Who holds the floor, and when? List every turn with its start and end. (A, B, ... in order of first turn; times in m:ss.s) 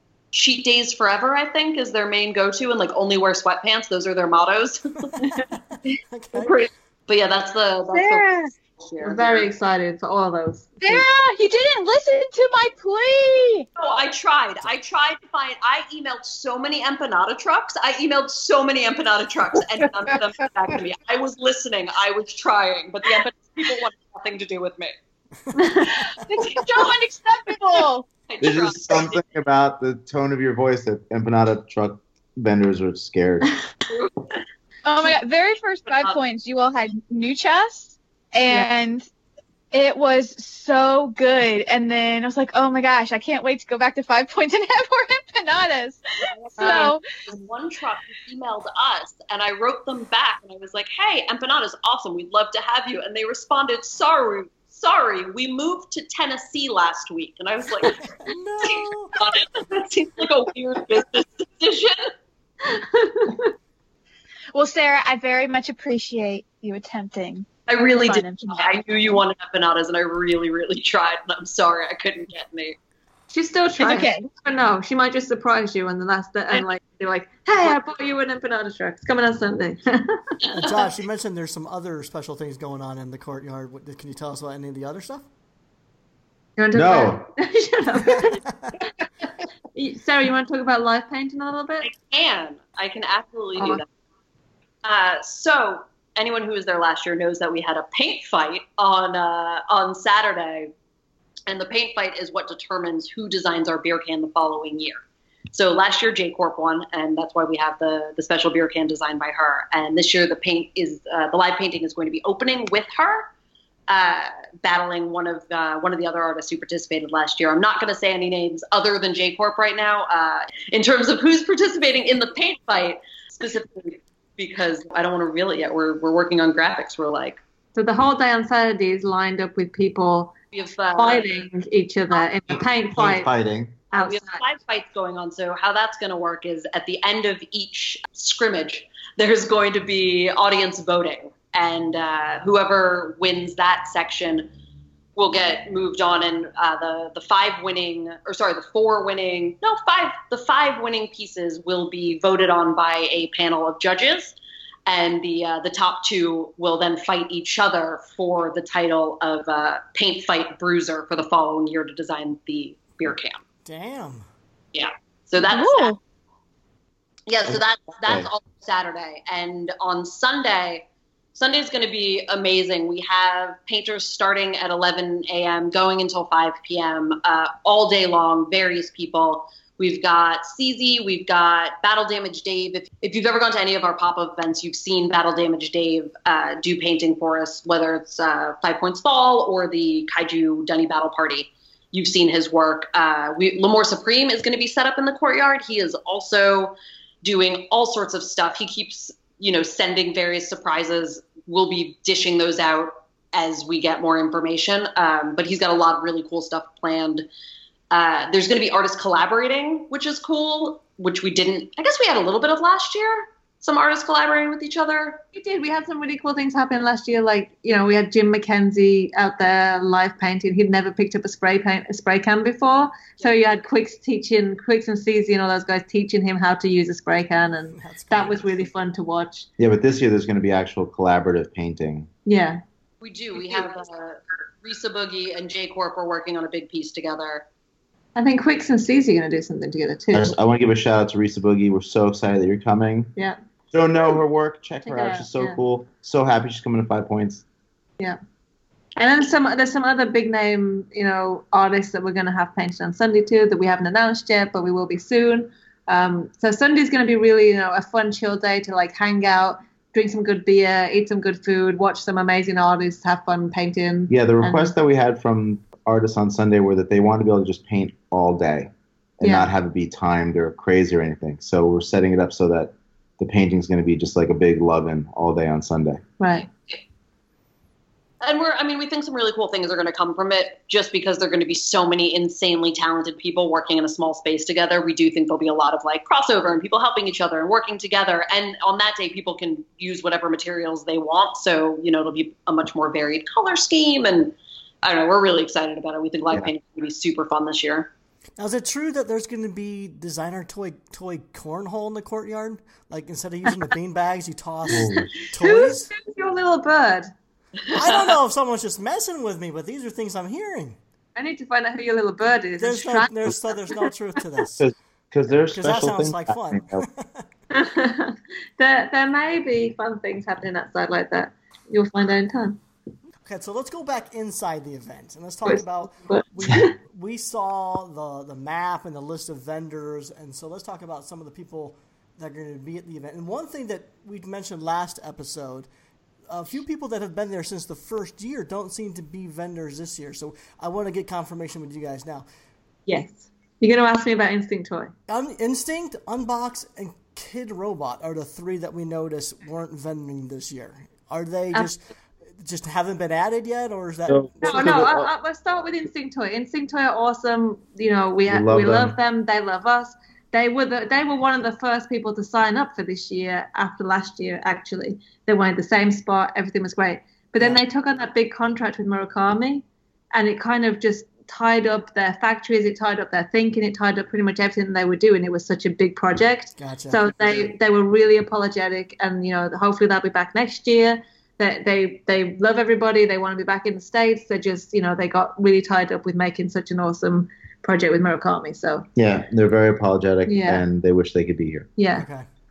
0:00.3-0:05.1 A
0:05.0-0:06.6 B
0:06.3-0:08.3 A
0:07.9-0:08.5 C
0:08.8-0:09.5 A
0:09.0-0:11.0 D
0:10.8-0:13.6 C
0:13.8-0:24.9 A
0:25.4-0:26.2 B
0:25.5-0:26.0 D
0:26.2-0:28.0 C
0:26.5-0:26.9 A
0:28.3-0:29.2 A
0:28.4-0:33.6 E
0:33.9-0:34.3 A
0:34.8-0:39.1 C
0:35.9-0:36.2 A
0:39.7-0:46.0 C
0:46.3-0:58.0 A
0:46.6-0:46.9 D
0:46.6-0:47.0 C
0:58.0-0:59.2 B
0:58.6-1:02.1 A
1:02.6-1:03.5 D
1:04.5-1:09.2 C
1:07.7-1:12.8 A
1:13.3-1:20.3 D
1:13.8-1:14.3 C
1:20.5-1:25.2 B
1:26.6-1:28.9 D
1:26.7-1:27.3 E
1:28.0-1:28.7 B
1:29.7-1:31.9 D
1:31.8-1:33.8 A
1:33.6-1:33.8 D
1:34.8-1:40.7 A
1:41.5-1:53.3 A
1:53.9-2:07.4 A
2:07.7-2:10.4 D
2:10.5-2:11.4 A
2:11.0-2:13.3 D
2:12.9-2:13.8 E
2:13.9-2:14.4 D
2:13.9-2:24.5 A
2:25.2-2:43.4 A
2:43.6-2:44.2 B
2:44.7-2:46.0 A
2:45.4-2:46.0 C
2:47.3-3:27.2 A
2:47.4-2:48.3 E
3:27.9-3:35.2 A
3:35.3-3:49.5 D
3:47.8-3:48.7 B
3:49.6-3:52.1 E
3:52.2-3:52.6 D
3:53.0-3:57.4 A
3:58.2-4:00.3 D
4:00.1-4:03.1 E
4:03.7-4:07.4 E
4:04.8-4:05.6 D
4:09.0-4:24.7 D
4:24.1-4:36.0 E
4:29.2-4:29.5 D
4:36.2-4:36.5 D
4:38.2-4:57.9 A
4:58.4-5:05.9 B
5:04.7-5:05.3 E
5:04.7-5:07.1 D
5:07.7-5:10.8 B
5:07.8-5:08.1 A
5:11.2-5:13.9 D
5:12.6-5:14.6 B
5:14.6-5:16.8 E
5:15.5-5:17.2 B
5:17.5-5:22.6 D
5:23.2-5:35.7 B
5:25.4-5:26.7 D
5:36.3-5:42.2 B
5:42.9-5:44.9 D
5:45.1-5:51.8 B
5:52.4-5:54.9 B
5:54.1-5:55.1 E
5:54.4-6:28.9 D
5:58.3-5:59.0 E
6:16.6-6:17.5 B
6:29.0-6:31.7 E
6:30.2-6:30.6 D
6:31.8-6:32.1 D
6:32.0-6:32.2 B